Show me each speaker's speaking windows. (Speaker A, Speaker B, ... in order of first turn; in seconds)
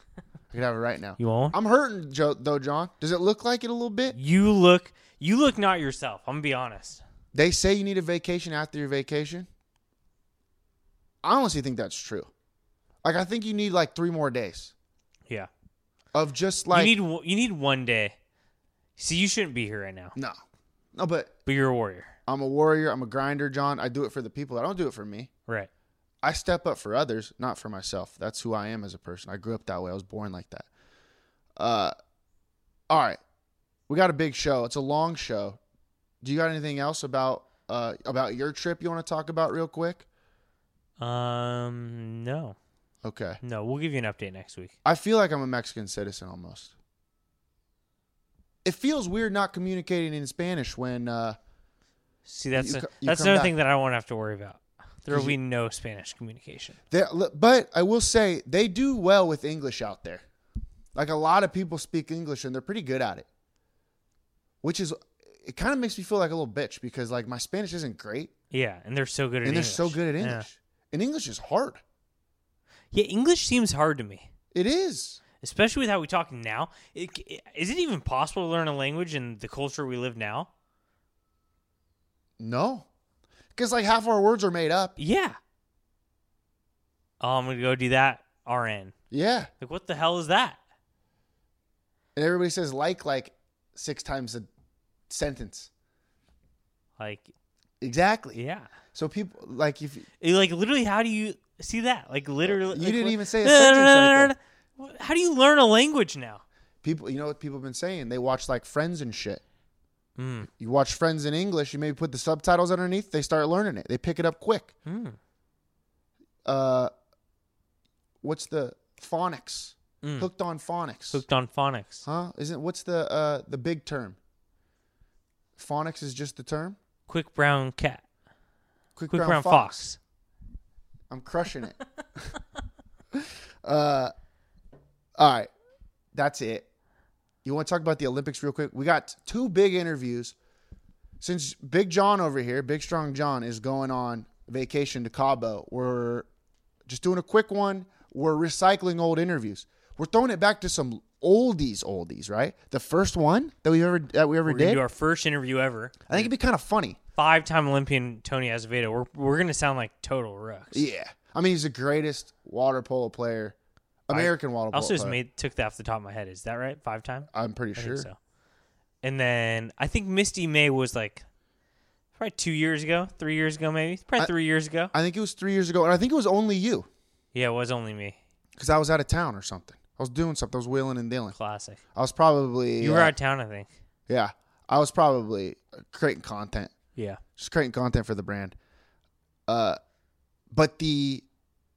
Speaker A: 0.5-4.2, 7.3-9.5, 11.2-12.3, 13.0-14.7, 16.1-16.9, 20.9-21.3, 22.3-25.3, 26.2-30.7, 31.6-31.9, 32.9-33.2, 33.9-35.6, 36.2-40.0, 43.0-43.4, 44.8-46.7, 48.6-51.4, 52.5-53.5, 55.1-55.4, 56.9-60.2, 60.9-63.2, 64.6-68.3, 69.4-71.8, 74.5-75.2, 82.4-82.9, 83.5-84.9, 89.1-89.5, 92.2-94.5, 95.1-95.7, 97.8-98.4, 98.9-100.1, 102.4-104.3, 106.8-109.4, 110.5-114.7, 116.4-116.9, 118.2-121.2, 122.0-124.2, 125.6-126.8, 128.9-129.9, 131.1-132.3, 133.1-134.1, 135.2-135.5, 136.1-136.7, 137.4-140.3, 141.2-146.3, 146.8-154.8, 156.1-157.0, 160.7-163.6, 164.1-165.2, 167.3-168.1, 174.9-176.9, 178.6-181.3, 181.9-183.1, 184.1-186.7, 187.4-188.6, 189.5-189.8, 190.5-191.2
Speaker B: 1.2-1.6, 4.1-7.0, 16.7-18.1, 19.0-20.1, 21.4-22.1, 41.0-42.5, 43.4-44.7, 52.2-56.8, 68.5-70.5, 72.9-74.3, 75.4-80.5, 85.0-85.4, 87.2-88.9, 89.6-90.6, 97.0-97.3, 98.3-98.7, 100.2-106.4, 110.2-110.5, 114.8-115.2, 120.0-120.3, 121.1-122.0, 127.1-128.0, 129.1-130.0, 154.4-156.3, 157.2-160.9, 164.1-168.2, 169.0-171.2, 172.2-174.9, 177.3-178.2, 181.3-181.8, 182.8-183.7